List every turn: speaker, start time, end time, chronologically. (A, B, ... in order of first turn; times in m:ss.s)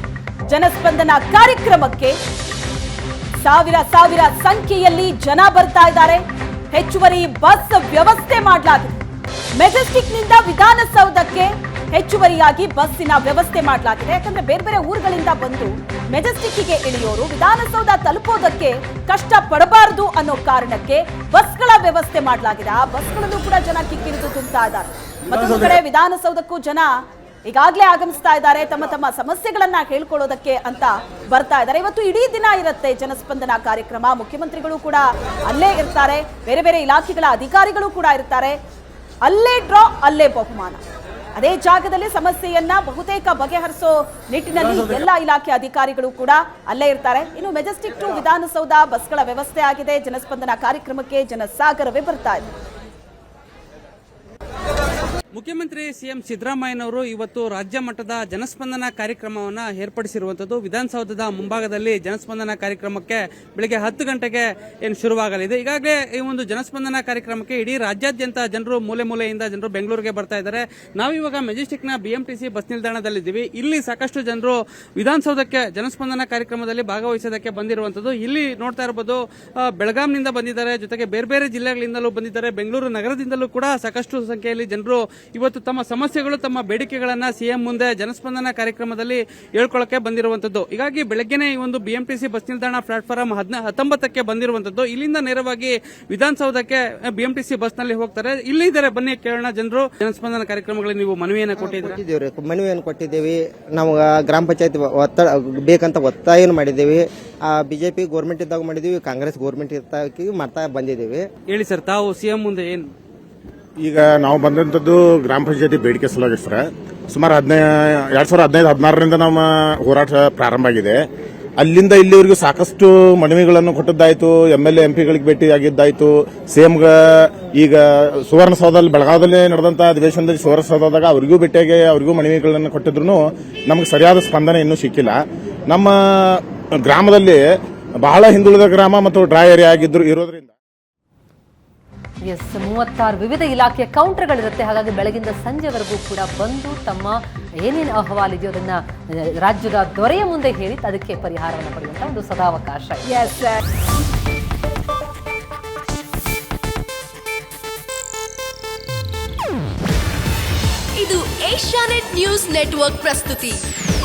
0:00.5-0:02.2 A
0:03.4-0:08.9 A
0:09.6-0:26.9 A
0:27.5-0:38.6 A
0:39.2-0:40.8 A
0:41.4-0:52.5 A
0:55.3-1:19.2 B
1:19.8-1:42.0 B
1:41.6-1:51.2 C
1:51.5-1:52.9 B
1:53.8-2:01.0 D
2:01.6-2:15.2 D
2:15.7-2:17.4 D
2:18.0-2:20.5 D
2:22.2-2:33.5 E
2:41.0-2:43.6 F